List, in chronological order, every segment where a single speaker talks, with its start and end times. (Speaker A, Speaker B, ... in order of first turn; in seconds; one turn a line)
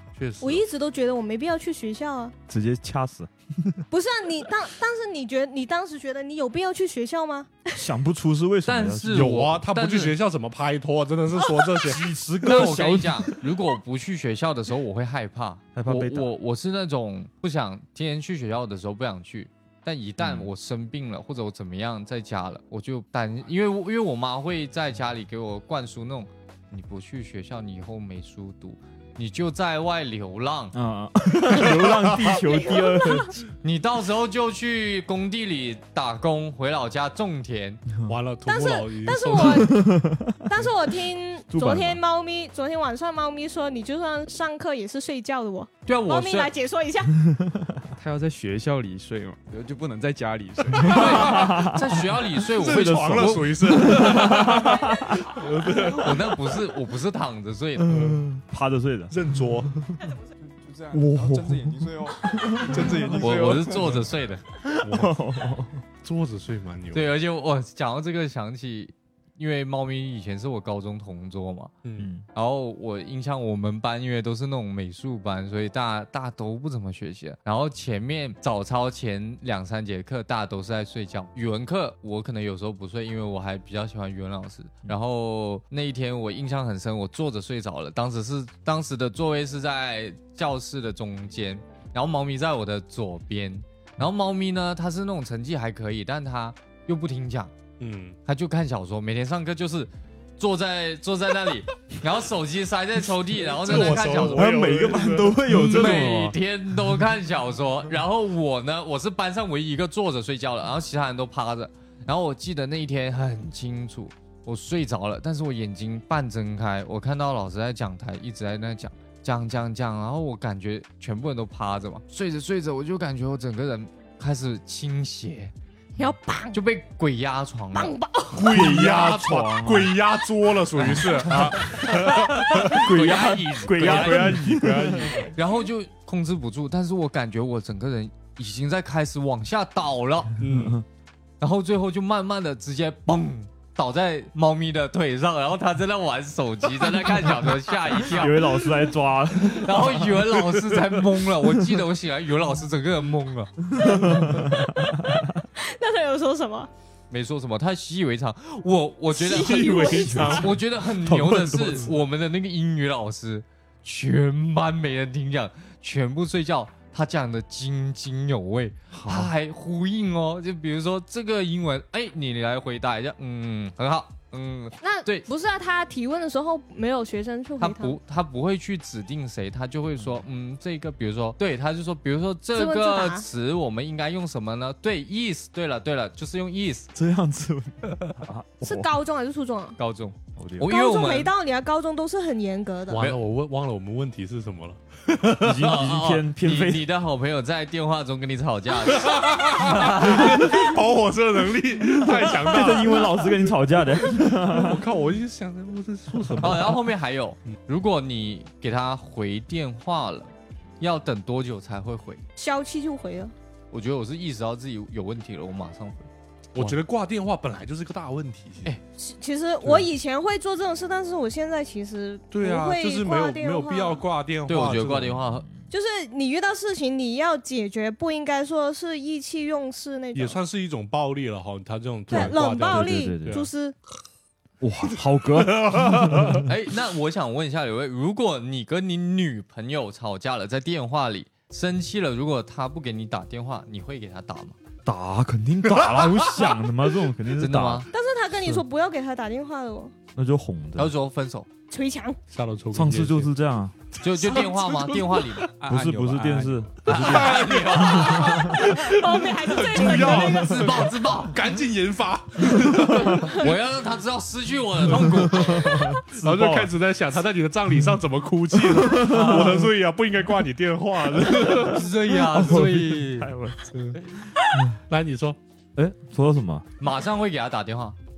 Speaker A: 0.1-0.6
Speaker B: 0.4-2.3
Speaker C: 2.5-3.8
Speaker B: 3.9-7.8
Speaker C: 7.7-9.5
Speaker D: 8.7-10.2
Speaker A: 9.1-12.1
Speaker B: 11.4-12.0
Speaker C: 11.9-13.5
Speaker D: 12.4-30.7
Speaker C: 15.7-16.3
Speaker C: 20.2-20.5
Speaker C: 30.7-33.4
Speaker A: 31.6-32.4
Speaker B: 32.2-33.4
Speaker D: 33.6-37.8
Speaker A: 38.1-39.7
Speaker B: 38.5-39.8
Speaker C: 39.4-40.5
Speaker B: 40.5-47.1
Speaker C: 41.5-42.0
Speaker D: 45.9-46.5
Speaker C: 47.3-47.8
Speaker E: 48.0-51.4
Speaker D: 50.8-54.5
Speaker A: 50.9-51.6
Speaker C: 51.0-52.0
Speaker A: 52.4-56.5
Speaker C: 53.6-55.4
Speaker D: 55.9-58.1
Speaker C: 57.8-60.0
Speaker A: 57.9-58.2
Speaker A: 59.1-59.7
Speaker E: 60.4-64.0
Speaker C: 60.9-63.2
Speaker D: 63.2-64.4
Speaker C: 64.7-65.8
Speaker A: 64.8-65.2
Speaker A: 66.0-67.1
Speaker D: 66.9-71.7
Speaker A: 71.8-72.1
Speaker C: 72.0-72.2
Speaker D: 72.3-97.5
Speaker A: 97.8-98.2
Speaker D: 98.2-104.5
Speaker A: 103.5-106.2
Speaker C: 104.3-106.3
Speaker D: 105.5-127.9
Speaker B: 126.0-126.6
Speaker B: 127.7-128.5
Speaker A: 128.3-132.9
Speaker C: 128.3-129.9
Speaker D: 130.8-134.4
Speaker C: 131.3-135.3
Speaker A: 133.7-135.3
Speaker D: 135.3-140.3
Speaker A: 140.4-140.8
Speaker C: 140.5-140.8
Speaker D: 141.4-148.6
Speaker C: 147.9-150.3
Speaker D: 149.4-153.6
Speaker C: 153.7-155.1
Speaker B: 153.8-156.7
Speaker D: 157.1-175.2
Speaker B: 159.1-160.5
Speaker A: 159.2-160.6
Speaker C: 161.0-161.9
Speaker C: 168.9-169.3
Speaker B: 174.8-178.0
Speaker D: 177.6-186.9
Speaker B: 182.5-183.3
Speaker C: 186.9-188.9
Speaker B: 188.6-189.8
Speaker D: 189.8-191.3
Speaker C: 190.3-190.7
Speaker B: 190.6-193.0
Speaker A: 192.9-195.7
Speaker D: 192.9-193.2
Speaker C: 195.4-196.8
Speaker D: 195.6-200.4
Speaker A: 198.9-203.2
Speaker C: 202.0-204.8
Speaker A: 204.5-206.8
Speaker D: 206.4-212.2
Speaker B: 212.4-213.3
Speaker D: 213.7-216.8
Speaker A: 216.5-218.7
Speaker B: 219.0-224.0
Speaker A: 219.6-219.9
Speaker A: 222.3-225.2
Speaker D: 224.5-225.5
Speaker C: 225.0-225.7
Speaker B: 225.7-230.4
Speaker A: 230.1-233.5
Speaker C: 232.1-233.4
Speaker B: 232.1-233.7
Speaker C: 234.6-236.4
Speaker A: 235.3-236.4
Speaker D: 236.4-244.6
Speaker C: 244.8-247.9
Speaker A: 245.9-246.5
Speaker D: 247.3-247.9
Speaker B: 247.9-249.9
Speaker C: 250.1-250.9
Speaker D: 250.8-251.5
Speaker B: 251.7-252.2
Speaker A: 252.3-253.3
Speaker C: 252.7-253.8
Speaker D: 254.0-255.5
Speaker A: 254.1-255.3
Speaker E: 255.6-256.6
Speaker C: 255.6-258.4
Speaker D: 256.8-258.5
Speaker A: 256.8-263.5
Speaker B: 257.9-260.9
Speaker D: 259.8-261.4
Speaker D: 262.9-265.8
Speaker A: 264.9-271.9
Speaker C: 264.9-266.7
Speaker C: 268.6-269.6
Speaker D: 269.0-269.4
Speaker C: 271.3-273.7
Speaker D: 271.5-273.3
Speaker A: 273.7-274.0
Speaker C: 274.5-274.8
Speaker A: 274.9-275.4
Speaker C: 275.8-276.7
Speaker D: 276.8-278.0